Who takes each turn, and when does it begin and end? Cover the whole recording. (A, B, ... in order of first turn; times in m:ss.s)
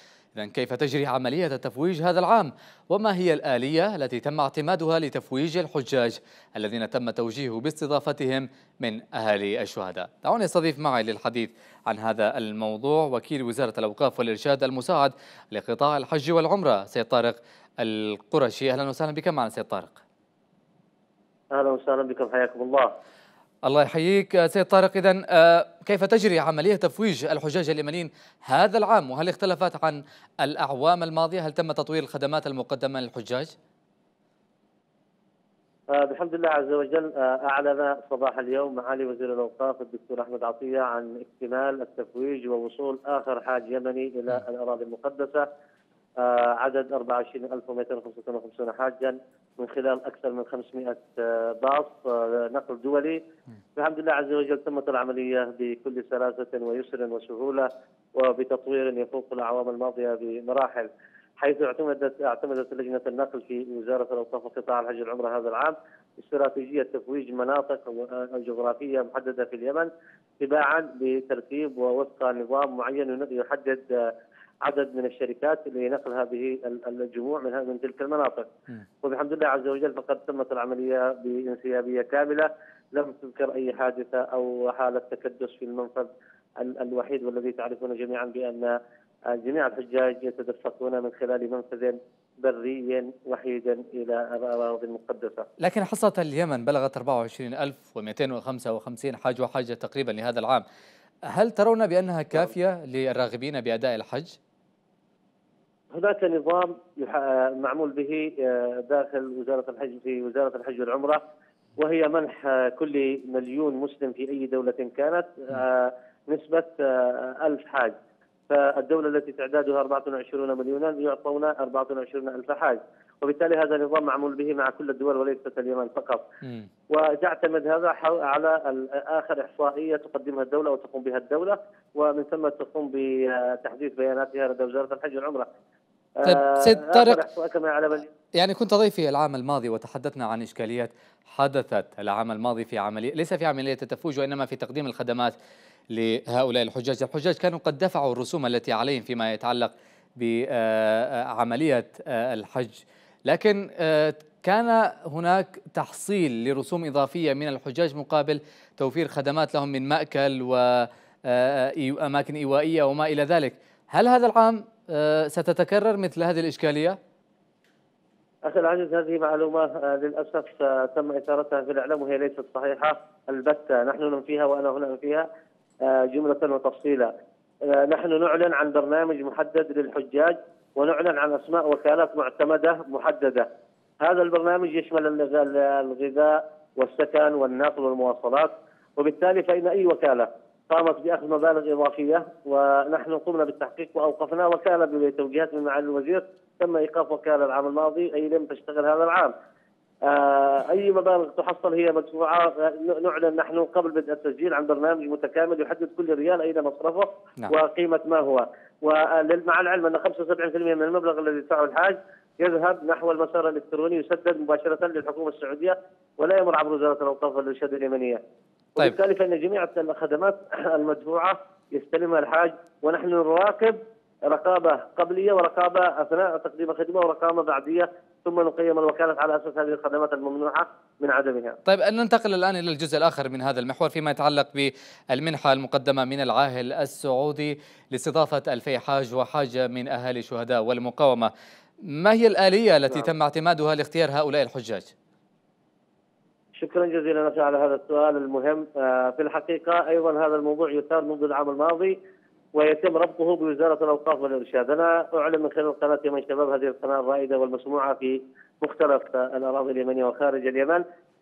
0:00.3-0:20.0 A
0:21.5-0:22.9 B
0:23.6-0:33.5 A
0:35.9-0:45.4 B
0:46.2-0:53.2 B
0:53.8-1:00.9 B
1:01.4-1:14.1 B
1:14.6-1:18.5 B
1:19.0-1:28.8 B
1:29.3-1:35.4 B
1:35.6-1:40.6 A
1:41.3-1:44.4 A
1:45.9-1:51.2 B
1:51.8-1:57.9 B
1:58.5-2:06.2 B
2:06.9-2:15.5 B
2:16.2-2:18.1 B
2:16.2-2:17.2 A
2:18.4-2:25.3 A
2:25.9-2:47.0 A
2:48.4-2:55.3 B
2:55.8-2:57.1 B
2:57.7-3:03.5 B
3:04.0-3:19.3 B
3:20.0-3:38.2 B
3:38.8-3:43.8 B
3:44.3-3:51.6 B
3:51.7-4:01.3 A
4:01.8-4:04.9 A
4:06.6-4:12.0 B
4:12.5-4:20.8 B